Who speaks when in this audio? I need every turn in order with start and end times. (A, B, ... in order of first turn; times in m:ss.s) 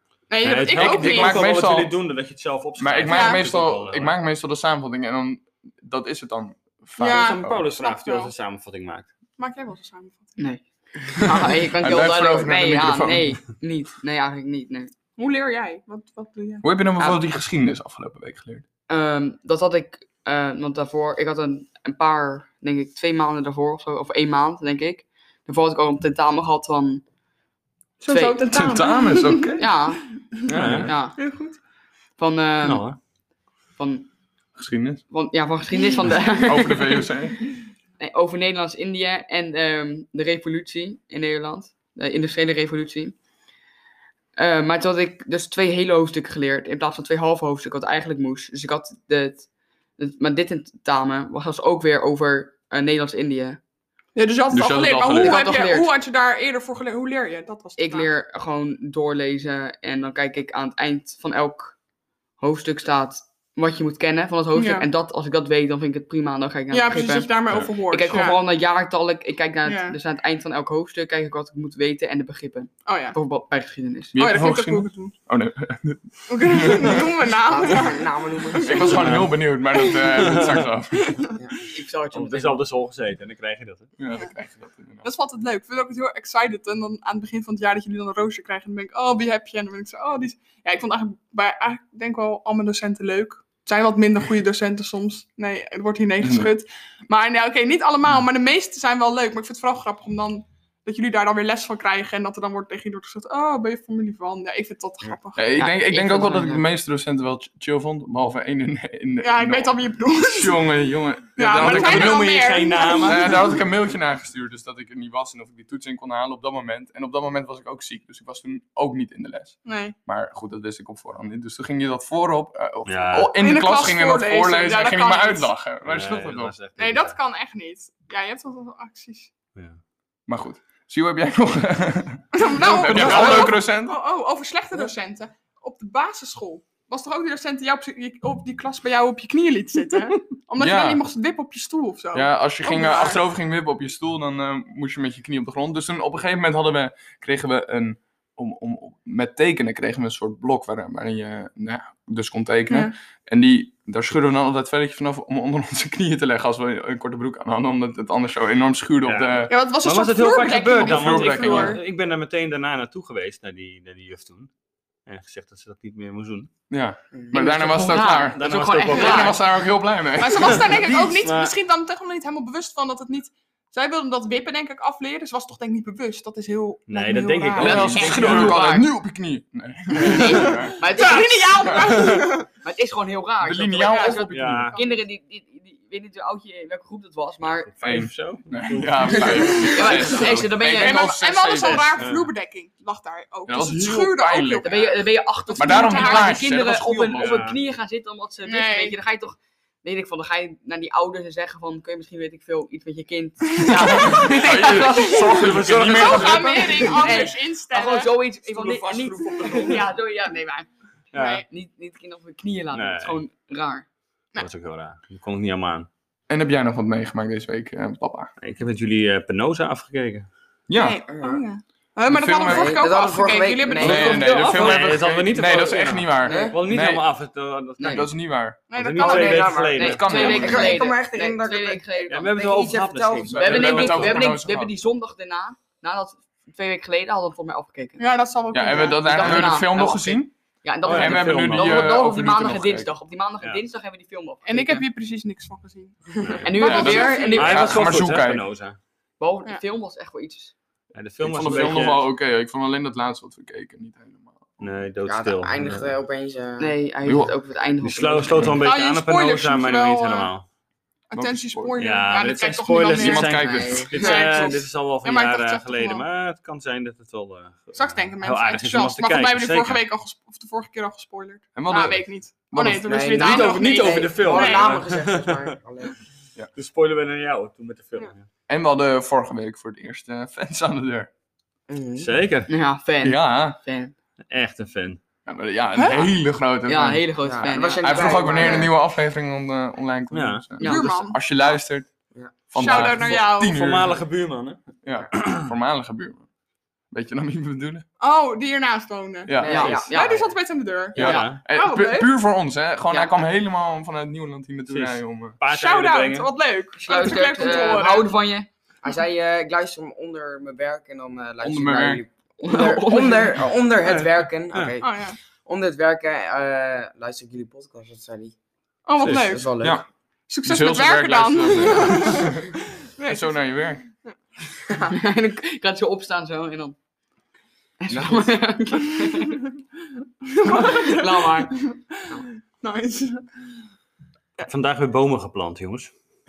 0:00.3-0:01.6 A
0:00.4-0:04.2 B
0:00.6-0:01.9 C
0:02.8-0:07.6 C
0:03.1-0:03.4 A
0:07.0-0:08.3 A
0:07.0-0:09.1 B
0:09.4-0:10.4 A
0:10.4-0:14.9 D
0:11.2-0:13.4 C
0:15.2-0:16.7 A
0:16.6-0:18.6 C
0:18.9-0:27.0 D
0:28.0-0:29.6 A
0:28.1-0:28.4 D
0:28.5-0:29.7 C
0:29.6-0:30.1 D
0:30.2-0:30.5 A
0:30.5-0:31.0 C
0:30.5-0:30.9 B
0:30.7-0:31.2 D
0:31.2-0:31.6 A
0:32.2-0:32.9 D
0:32.6-0:33.0 B
0:33.8-0:34.1 D
0:34.6-0:35.0 C
0:35.1-0:37.1 D
0:36.4-0:37.5 C
0:38.0-0:43.2 D
0:44.4-0:53.6 D
0:54.1-0:58.1 A
0:54.5-0:55.4 C
0:55.1-0:55.9 D
0:57.8-1:01.8 D
1:02.4-1:14.2 D
1:04.5-1:04.9 A
1:06.7-1:08.4 A
1:09.6-1:10.0 A
1:12.8-1:13.2 A
1:14.1-1:17.1 C
1:14.2-1:15.2 A
1:16.3-1:19.2 A
1:17.4-1:19.2 E
1:18.6-1:21.2 C
1:18.9-1:19.4 B
1:19.7-1:21.4 A
1:20.2-1:20.6 B
1:21.7-1:22.6 D
1:22.1-1:23.9 B
1:24.0-1:25.0 C
1:25.0-1:45.4 A
1:36.2-1:36.5 C
1:45.4-1:52.4 C
1:45.5-1:46.6 D
1:49.2-1:50.7 A
1:51.4-1:53.6 A
1:51.5-1:53.5 B
1:53.0-2:06.6 C
1:59.6-2:00.0 A
2:02.8-2:03.3 B
2:03.3-2:05.5 A
2:05.8-2:07.2 B
2:06.7-2:09.3 A
2:09.5-2:09.8 B
2:10.3-2:14.0 C
2:12.3-2:23.2 A
2:12.9-2:13.5 B
2:20.6-2:21.0 C
2:22.1-2:39.5 C
2:32.7-2:32.9 A
2:39.0-2:44.5 B
2:39.5-2:41.8 A
2:40.8-2:41.8 C
2:45.0-2:46.5 B
2:46.7-2:50.7 C
2:47.3-2:49.4 D
2:48.3-2:49.4 B
2:50.2-2:58.4 A
2:50.4-2:51.5 B
2:56.9-2:58.6 B
2:57.6-3:00.8 C
2:57.6-2:58.9 D
3:00.0-3:02.5 A
3:00.8-3:07.7 D
3:01.7-3:02.2 C
3:03.4-3:04.7 C
3:03.9-3:05.0 A
3:04.3-3:04.7 B
3:07.5-3:09.9 B
3:07.8-3:12.1 C
3:09.6-3:11.2 D
3:09.9-3:16.4 A
3:11.6-3:12.3 B
3:13.5-3:14.7 C
3:14.6-3:25.5 D
3:15.6-3:17.5 C
3:17.1-3:17.6 B
3:18.4-3:19.0 A
3:23.6-3:28.2 A
3:23.9-3:26.9 C
3:24.7-3:27.3 B
3:26.8-3:33.8 D
3:28.5-3:29.8 B
3:29.5-3:29.7 A
3:31.1-3:31.4 B
3:31.1-3:31.4 A
3:32.7-3:33.2 B
3:34.4-3:35.9 B
3:36.3-3:38.3 C
3:38.4-3:40.3 B
3:40.7-3:41.0 C
3:40.7-3:44.6 A
3:41.1-3:41.4 E
3:42.1-3:42.9 C
3:42.4-3:44.3 E
3:43.8-3:47.0 C
3:43.8-3:48.1 B
3:46.2-3:46.6 E
3:47.8-3:48.6 C
3:48.7-3:49.7 A
3:48.7-3:50.5 B
3:49.0-3:53.9 E
3:49.7-3:52.2 D
3:49.8-3:50.8 C
3:52.1-3:54.3 B
3:53.3-3:54.7 C
3:53.3-3:58.0 D
3:58.0-3:59.6 A
3:58.5-4:00.3 C
3:58.7-4:04.8 D
4:00.8-4:02.0 B
4:00.8-4:02.9 C
4:04.4-4:07.7 A
4:06.2-4:08.8 B
4:06.4-4:07.8 D
4:06.6-4:08.4 C
4:09.2-4:10.5 D
4:10.9-4:12.1 B
4:11.2-4:14.7 C
4:14.6-4:15.9 B
4:15.0-4:16.8 E
4:16.6-4:18.6 D
4:17.0-4:17.3 C
4:17.8-4:20.4 B
4:18.5-4:20.3 A
4:21.1-4:26.0 A
4:21.1-4:21.7 C
4:21.8-4:29.8 B
4:22.9-4:23.9 C
4:23.5-4:24.5 E
4:27.7-4:34.8 A
4:31.5-4:33.4 C
4:32.8-4:36.0 E
4:33.2-4:35.6 B
4:36.5-4:38.3 B
4:38.5-4:41.1 C
4:41.7-4:42.1 E
4:42.0-4:42.5 B
4:42.5-4:43.9 D
4:43.0-4:43.6 C
4:44.3-4:45.0 B
4:45.2-4:47.1 C
4:45.7-4:46.1 A
4:46.6-4:48.5 D
4:47.2-4:48.7 E
4:47.8-4:51.9 C
4:50.1-4:50.5 B
4:50.6-4:51.0 D
4:50.6-4:51.2 A
4:52.5-4:54.0 C
4:52.5-4:53.6 A
4:52.8-4:54.6 B
4:54.8-4:56.2 C
4:55.2-4:55.4 B
4:56.9-4:57.8 C
4:58.0-5:02.1 A
4:59.3-4:59.8 C
4:59.4-5:00.3 E
4:59.4-5:00.2 D
5:00.9-5:05.4 C
5:01.0-5:01.4 B
5:04.7-5:06.3 B
5:05.5-5:08.1 A
5:06.8-5:08.5 D
5:07.2-5:07.8 E
5:08.8-5:18.3 E
5:11.4-5:12.0 C
5:12.4-5:13.4 D
5:13.8-5:14.8 B
5:14.8-5:15.2 A
5:18.8-5:19.6 A
5:19.0-5:19.3 B
5:19.0-5:19.8 E
5:19.6-5:19.9 C
5:20.3-5:24.1 A
5:20.4-5:22.5 C
5:23.0-5:23.8 C
5:24.9-5:26.8 D
5:27.8-5:29.4 D
5:27.9-5:28.3 E
5:29.0-5:29.3 A
5:30.2-5:33.3 A
5:30.4-5:32.2 D
5:34.4-5:35.9 B